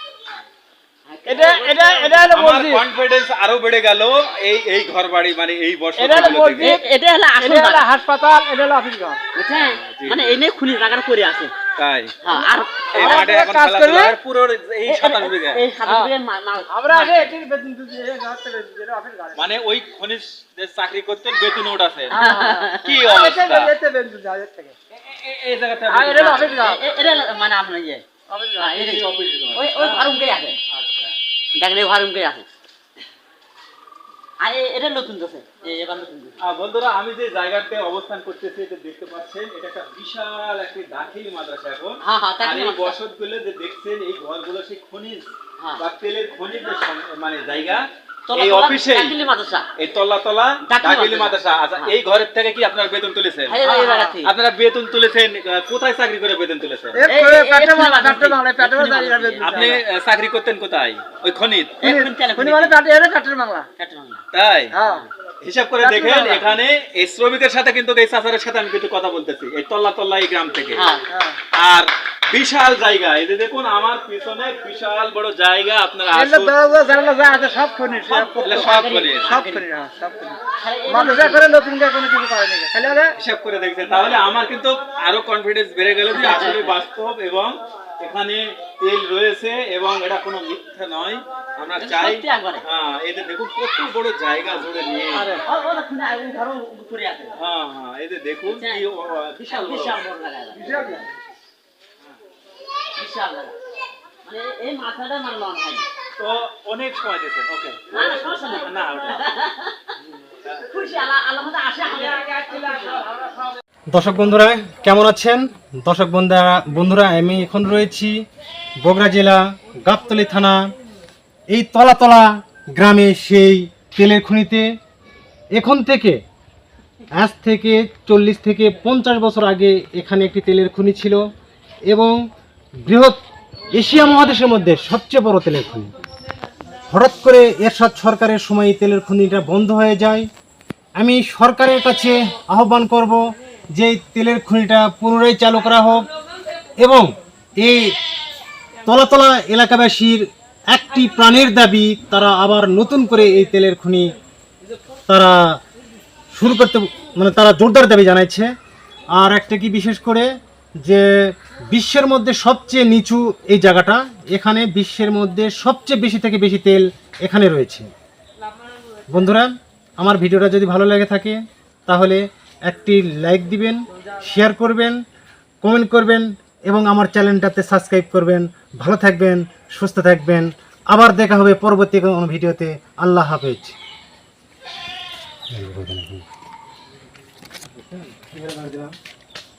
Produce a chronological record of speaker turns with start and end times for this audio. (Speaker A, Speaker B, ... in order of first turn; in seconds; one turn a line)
Speaker A: 1.1-2.3
Speaker B: 1.2-2.8
Speaker C: 2.3-6.8
Speaker B: 6.0-6.8
Speaker A: 6.1-7.8
Speaker B: 7.3-9.2
Speaker A: 9.3-11.5
Speaker C: 9.5-10.4
Speaker C: 11.8-12.2
Speaker A: 12.2-13.3
Speaker C: 12.9-15.6
Speaker B: 12.9-14.2
Speaker A: 14.9-16.7
Speaker B: 15.8-16.1
Speaker B: 16.7-19.5
Speaker C: 16.9-17.3
Speaker C: 19.4-22.2
Speaker A: 22.1-23.0
Speaker B: 22.1-24.7
Speaker C: 22.8-23.7
Speaker C: 24.9-26.6
Speaker B: 25.9-26.8
Speaker A: 26.2-28.0
Speaker B: 28.3-28.8
Speaker A: 28.6-30.6
Speaker C: 28.8-30.1
Speaker C: 30.7-31.1
Speaker A: 31.5-32.5
Speaker A: 34.4-36.4
Speaker C: 36.4-49.1
Speaker A: 42.0-43.0
Speaker A: 45.6-45.8
Speaker A: 48.3-49.7
Speaker C: 49.8-53.6
Speaker A: 50.6-51.9
Speaker A: 53.5-54.3
Speaker B: 53.6-54.1
Speaker C: 54.2-57.0
Speaker B: 56.9-59.8
Speaker A: 57.1-59.8
Speaker C: 59.4-61.8
Speaker A: 61.8-62.8
Speaker B: 61.8-63.7
Speaker A: 63.8-64.2
Speaker C: 64.3-64.7
Speaker B: 64.7-65.0
Speaker A: 64.8-65.1
Speaker C: 65.4-70.9
Speaker B: 65.8-66.5
Speaker A: 70.7-71.0
Speaker B: 71.1-71.4
Speaker C: 71.5-76.5
Speaker B: 76.1-83.1
Speaker C: 78.1-79.3
Speaker A: 78.4-79.6
Speaker A: 80.5-81.5
Speaker C: 83.2-95.4
Speaker A: 86.1-86.8
Speaker A: 91.8-92.6
Speaker A: 94.4-97.3
Speaker C: 97.3-100.0
Speaker A: 98.5-98.8
Speaker A: 99.4-101.3
Speaker B: 100.5-101.0
Speaker A: 102.9-103.5
Speaker A: 104.2-105.9
Speaker C: 106.2-109.3
Speaker A: 107.9-110.0
Speaker A: 110.7-113.0
Speaker B: 112.5-112.9
Speaker D: 113.9-118.2
Speaker D: 118.8-120.7
Speaker D: 121.5-124.7
Speaker D: 125.5-126.2
Speaker D: 127.2-131.2
Speaker D: 131.9-132.2
Speaker D: 132.8-133.2
Speaker D: 133.7-135.9
Speaker D: 136.9-140.3
Speaker D: 140.9-146.1
Speaker D: 146.8-148.0
Speaker D: 148.8-154.1
Speaker D: 155.1-155.4
Speaker D: 156.3-158.5
Speaker D: 159.1-167.9
Speaker D: 169.1-175.0
Speaker D: 175.6-183.8
Speaker D: 185.5-186.2
Speaker B: 188.5-188.9